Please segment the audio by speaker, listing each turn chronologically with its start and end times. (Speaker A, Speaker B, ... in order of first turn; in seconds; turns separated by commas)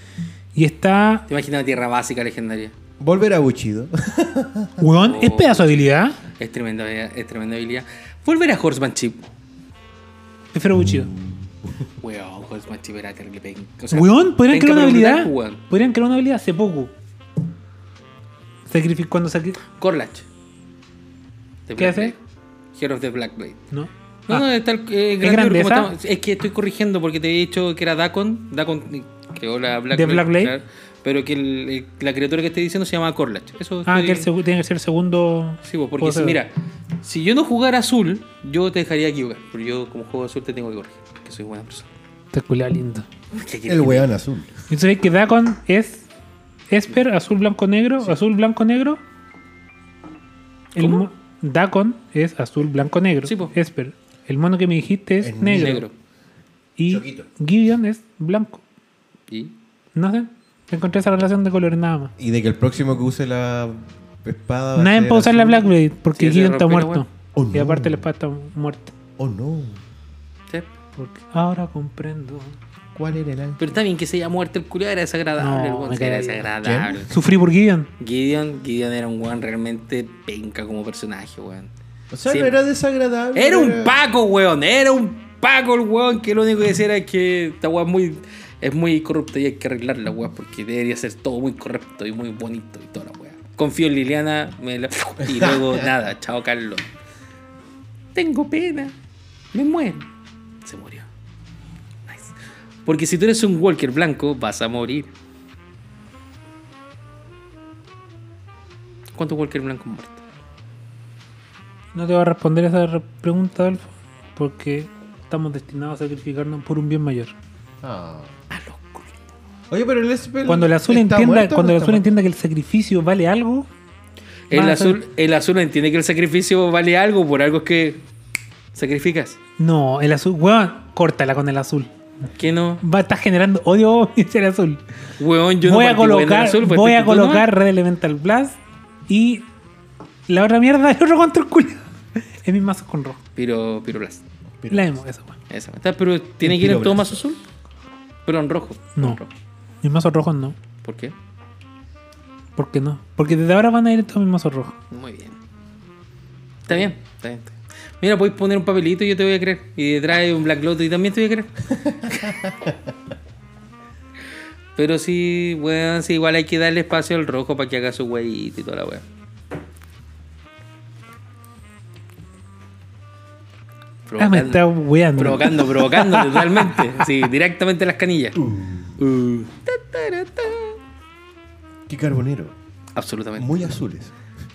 Speaker A: 0.6-1.2, Speaker B: 1.3-2.7, Speaker C: 3.0-4.9, Speaker A: 4.8-6.2, Speaker B: 5.0-9.3, Speaker A: 10.5-11.1, Speaker C: 10.7-11.8, Speaker B: 12.0-15.6, Speaker A: 13.9-16.9, Speaker A: 18.7-19.6, Speaker B: 19.7-20.2, Speaker B: 21.7-22.2, Speaker A: 21.8-22.1, Speaker B: 22.8-23.6, Speaker A: 23.7-24.4, Speaker B: 24.3-34.3, Speaker A: 25.2-25.9, Speaker A: 29.9-30.5, Speaker A: 33.9-36.4, Speaker B: 35.6-36.5, Speaker B: 37.0-41.9, Speaker A: 42.3-43.1, Speaker B: 43.3-44.1, Speaker C: 43.7-44.5, Speaker A: 44.7-46.1, Speaker A: 46.7-49.0, Speaker A: 50.8-55.9, Speaker B: 50.8-51.1, Speaker B: 53.2-53.5, Speaker C: 55.2-55.8, Speaker B: 55.5-55.9, Speaker A: 56.8-58.6, Speaker C: 56.9-57.3, Speaker A: 60.0-62.1, Speaker C: 62.2-65.7, Speaker A: 64.8-68.9, Speaker B: 66.2-67.1, Speaker C: 67.3-68.0, Speaker C: 69.2-69.8, Speaker A: 71.0-72.6, Speaker C: 73.0-73.6, Speaker B: 73.6-77.1, Speaker A: 75.4-76.5, Speaker C: 76.6-77.0, Speaker A: 77.1-77.9, Speaker B: 78.0-81.7, Speaker C: 82.1-84.0, Speaker B: 82.3-82.6, Speaker B: 83.3-96.9, Speaker C: 95.2-95.9, Speaker B: 98.2-98.9, Speaker B: 99.5-100.1, Speaker B: 100.6-101.1, Speaker B: 102.1-102.3, Speaker B: 102.9-105.1, Speaker B: 109.1-110.2, Speaker A: 111.9-117.3, Speaker C: 117.8-118.4, Speaker B: 118.5-119.1, Speaker C: 119.7-122.1, Speaker A: 120.5-123.7, Speaker B: 124.5-128.0, Speaker A: 124.5-125.0, Speaker B: 128.8-129.4, Speaker A: 129.6-131.9, Speaker B: 132.4-132.8, Speaker A: 132.8-134.8, Speaker B: 135.2-137.5, Speaker A: 135.6-139.5, Speaker A: 140.3-141.9, Speaker A: 142.4-143.2, Speaker B: 143.4-144.2, Speaker C: 144.6-144.9, Speaker A: 144.7-145.4, Speaker B: 145.5-147.4, Speaker C: 146.4-147.2, Speaker B: 148.2-149.3, Speaker A: 149.8-150.6, Speaker B: 150.8-151.1, Speaker A: 152.6-154.8, Speaker B: 154.9-155.4, Speaker B: 156.7-162.3, Speaker C: 162.1-162.8, Speaker B: 164.8-169.0, Speaker B: 174.1-178.4, Speaker A: 174.2-177.1, Speaker C: 178.3-179.0, Speaker B: 179.0-180.8, Speaker C: 181.9-182.5, Speaker B: 182.9-183.7, Speaker C: 183.4-184.2